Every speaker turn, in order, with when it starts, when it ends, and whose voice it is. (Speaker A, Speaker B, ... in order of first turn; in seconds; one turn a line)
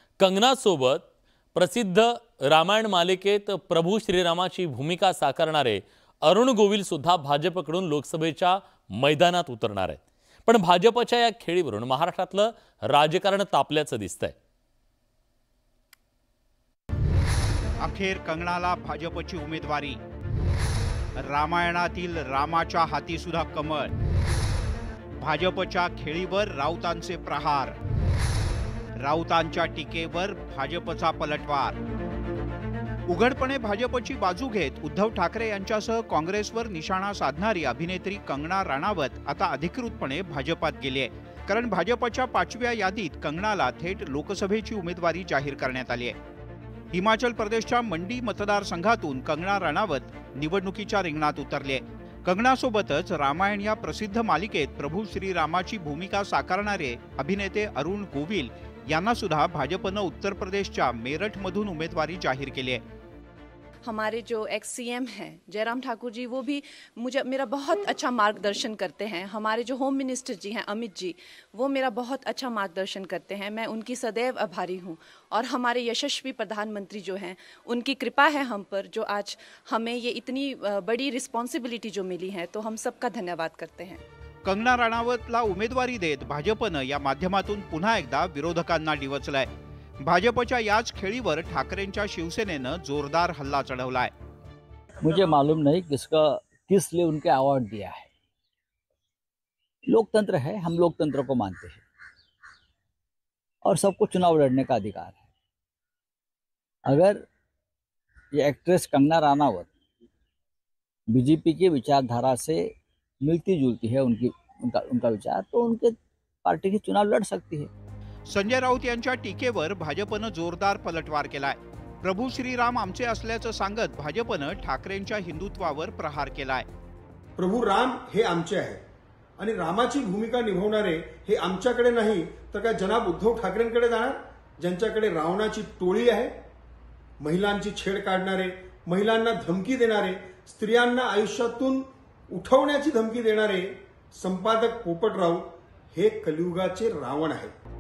Speaker A: 0.2-14.3
Speaker B: 17.8-20.0
Speaker B: 21.2-23.9
Speaker B: 25.2-27.8
Speaker B: 29.0-31.8
Speaker B: 33.1-46.2
Speaker B: 46.9-62.8
Speaker C: 63.8-84.0
Speaker B: 84.5-89.5
Speaker B: 90.0-94.1
Speaker D: 95.0-98.1
Speaker D: 99.9-101.8
Speaker D: 103.6-105.2
Speaker D: 106.9-107.2
Speaker D: 108.3-109.7
Speaker D: 111.1-117.7
Speaker B: 118.3-126.7
Speaker E: 127.4-128.8
Speaker E: 129.4-136.3
Speaker E: 137.2-147.5